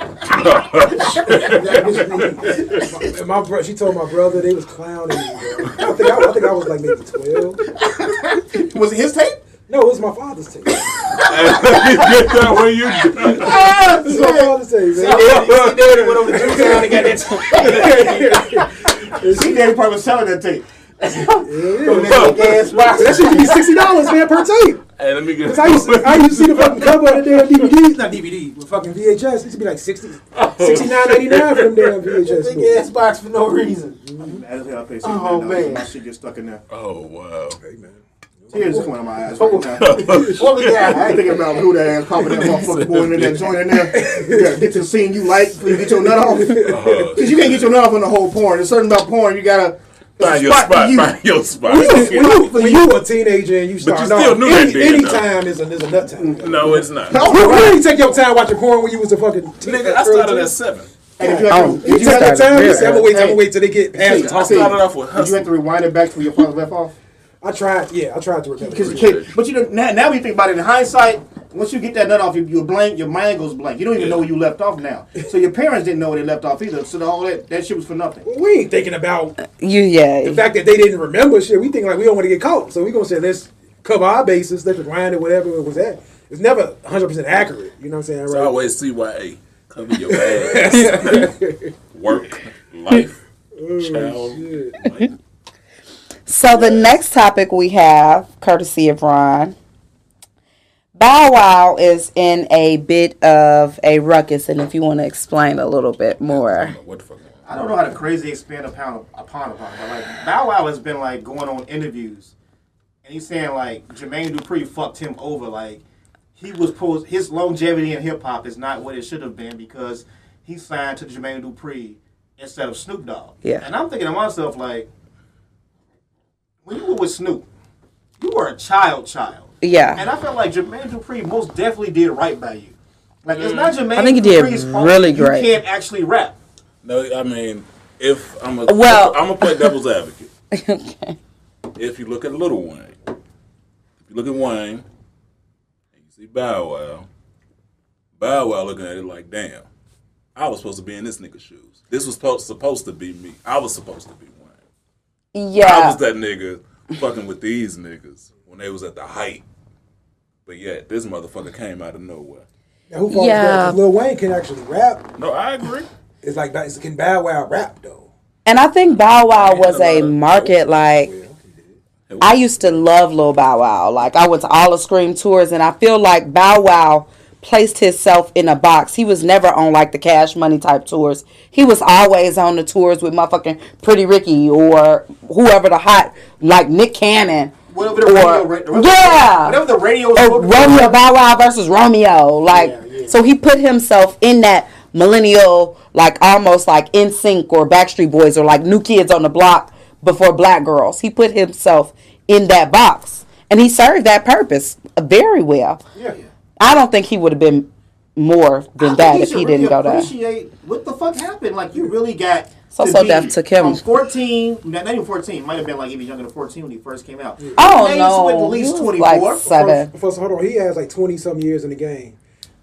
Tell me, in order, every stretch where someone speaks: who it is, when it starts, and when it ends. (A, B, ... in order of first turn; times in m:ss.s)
0:00.2-0:02.9 A
0:01.3-0:07.6 B
0:01.3-0:02.3 C
0:07.8-0:09.4 D
0:09.7-0:10.8 B
0:11.2-0:13.6 A
0:13.4-0:18.2 C
0:13.4-0:15.7 B
0:13.4-0:13.9 D
0:15.1-0:16.8 A
0:16.2-0:19.7 B
0:17.4-0:18.6 A
0:19.3-0:21.3 D
0:21.1-0:23.8 C
0:21.4-0:24.8 B
0:22.0-0:22.9 A
0:25.0-0:27.7 A
0:25.4-0:32.8 B
0:30.3-0:32.2 A
0:32.2-0:34.0 C
0:34.0-0:34.4 B
0:34.2-0:36.6 D
0:35.0-0:35.9 C
0:36.7-0:37.6 A
0:37.6-0:38.9 B
0:38.5-0:40.2 D
0:39.4-0:41.4 C
0:39.8-0:41.1 A
0:40.0-0:40.4 B
0:40.7-0:51.1 D
0:42.1-0:43.9 A
0:43.9-0:44.8 B
0:45.6-0:47.2 B
0:46.5-0:47.8 A
0:50.2-0:52.9 A
0:51.6-1:00.5 B
0:53.8-0:55.3 A
0:56.2-0:57.4 C
0:56.4-0:57.2 A
0:57.1-0:57.8 D
0:59.6-1:00.9 A
1:01.2-1:03.4 D
1:01.2-1:04.7 B
1:01.5-1:03.1 E
1:04.0-1:06.9 D
1:04.0-1:05.5 A
1:07.4-1:09.2 B
1:08.6-1:09.3 A
1:08.7-1:18.2 D
1:13.9-1:14.3 A
1:18.2-1:19.4 B
1:19.4-1:20.4 E
1:20.2-1:28.8 B
1:28.3-1:31.3 A
1:30.0-1:31.7 B
1:31.9-1:33.2 A
1:33.5-1:34.8 B
1:33.7-1:35.1 A
1:36.3-1:39.5 E
1:36.5-1:37.0 A
1:40.9-1:46.7 E
1:46.2-1:47.7 A
1:47.5-1:52.3 D
1:53.0-1:55.8 D
1:56.4-2:04.9 D
2:06.6-2:07.4 D
2:08.2-2:16.4 D
2:09.6-2:10.0 E
2:13.3-2:13.7 A
2:13.9-2:15.5 E
2:16.8-2:20.3 A
2:18.7-2:19.7 E
2:20.5-2:21.2 E
2:21.8-2:23.0 A
2:24.0-2:24.8 A
2:26.0-2:27.1 A
2:28.2-2:29.6 A
2:30.4-2:34.6 A
2:35.3-2:36.0 E
2:35.6-2:39.4 A
2:40.4-2:42.4 A
2:42.9-2:45.1 B
2:43.1-2:43.8 E
2:45.2-2:45.9 A
2:46.2-2:48.1 B
2:48.4-2:51.1 E
2:49.1-2:50.6 A
2:51.1-2:51.5 B
2:52.1-2:52.8 A
2:52.2-3:09.6 E
3:07.7-3:11.0 D
3:10.1-3:25.8 E
3:12.5-3:13.2 C
3:26.6-3:30.1 E
3:28.8-3:39.5 D
3:32.7-3:33.8 E
3:37.4-3:37.7 B
3:37.6-3:39.9 E
3:39.4-3:42.2 B